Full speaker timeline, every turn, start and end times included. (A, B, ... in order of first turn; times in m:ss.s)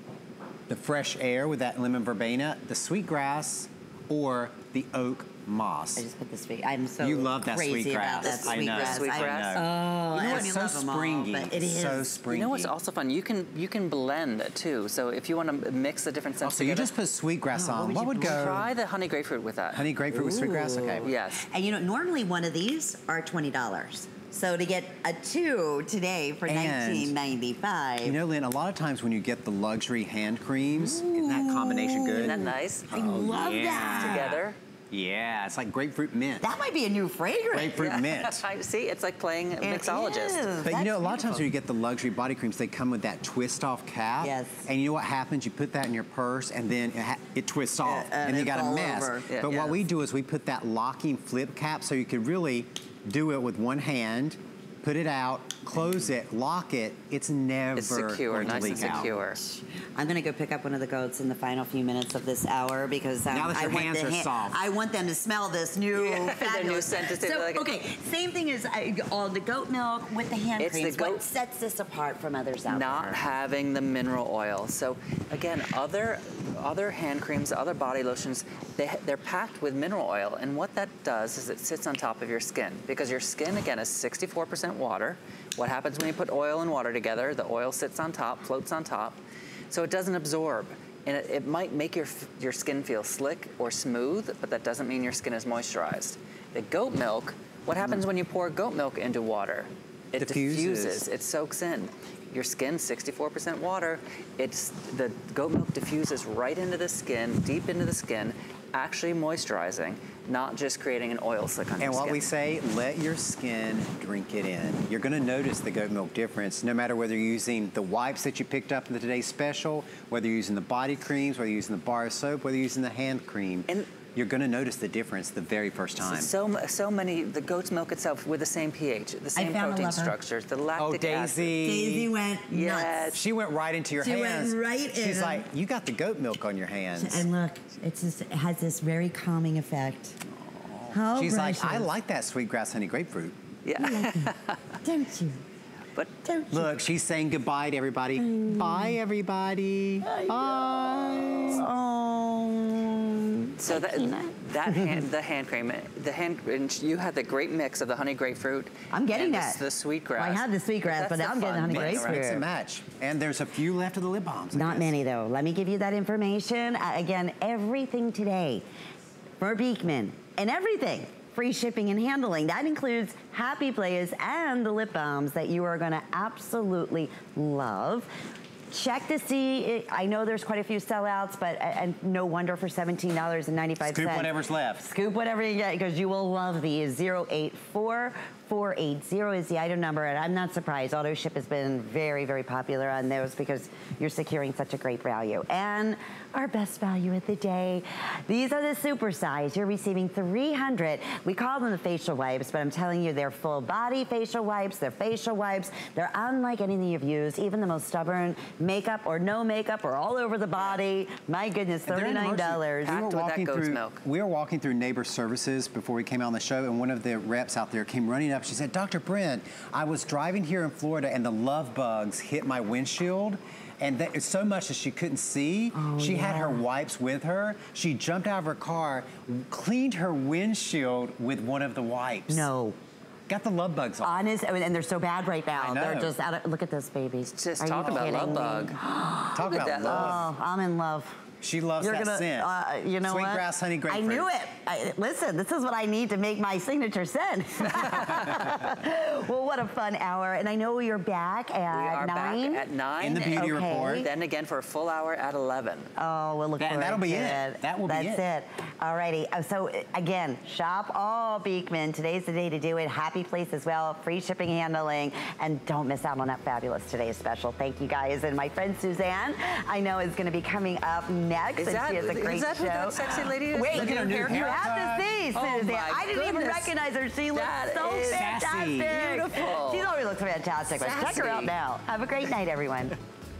0:00.7-0:06.0 A
0:06.0-0:12.2 B
0:07.0-0:12.7 A
0:08.2-0:09.6 C
0:12.3-0:16.9 C
0:16.4-0:18.7 A
0:17.5-0:18.7 B
0:18.2-0:19.8 C
0:19.7-0:21.1 A
0:20.1-0:28.2 B
0:21.0-0:21.4 C
0:26.5-0:27.1 A
0:28.0-0:36.4 A
0:30.8-0:34.4 B
0:32.2-0:32.9 C
0:33.7-0:34.6 C
0:36.4-0:37.8 B
0:37.5-0:38.4 A
0:37.8-0:40.5 C
0:39.6-0:41.4 B
0:40.6-0:59.1 A
0:44.2-0:44.6 B
0:47.8-0:49.3 B
0:49.3-0:49.8 C
0:57.8-0:59.4 C
0:58.4-1:13.2 B
1:03.3-1:04.6 A
1:05.9-1:07.6 C
1:10.6-1:11.2 C
1:12.7-1:29.2 C
1:29.7-1:52.3 C
1:40.2-1:41.0 A
1:51.8-2:06.3 A
2:06.0-2:11.6 C
2:09.4-2:10.1 B
2:10.8-2:12.1 A
2:11.6-2:13.2 B
2:12.5-2:13.2 C
2:13.1-2:17.3 A
2:14.0-2:15.4 B
2:17.0-2:20.2 B
2:20.5-2:23.4 A
2:20.9-2:21.9 B
2:23.6-2:24.8 C
2:23.8-2:25.4 B
2:26.2-2:26.8 B
2:26.5-2:31.6 A
2:28.2-2:29.0 B
2:30.0-2:35.0 B
2:33.6-2:42.2 C
2:38.9-2:39.6 B
2:40.1-2:42.4 B
2:41.7-2:44.9 A
2:44.5-2:48.6 B
2:49.4-2:58.1 B
2:58.7-3:04.3 B
3:03.8-3:04.9 A
3:04.8-3:33.0 B
3:31.9-3:52.5 A
3:32.8-3:34.0 C
3:45.7-3:46.6 B
3:52.3-3:52.8 B
3:53.3-3:54.2 A
3:54.0-4:01.2 B
3:55.5-3:56.1 A
3:57.4-3:58.8 C
3:57.8-3:58.4 A
3:59.3-4:00.2 A
3:59.4-4:00.2 C
4:01.4-4:04.3 A
4:01.8-4:14.1 B
4:11.7-4:15.9 C
4:13.0-4:14.1 A
4:16.0-4:43.0 B
4:16.6-4:18.2 A
4:31.6-4:34.7 C
4:33.6-4:35.1 A
4:35.3-4:36.7 C
4:37.3-4:39.9 C
4:38.0-4:39.2 A
4:40.7-4:41.5 C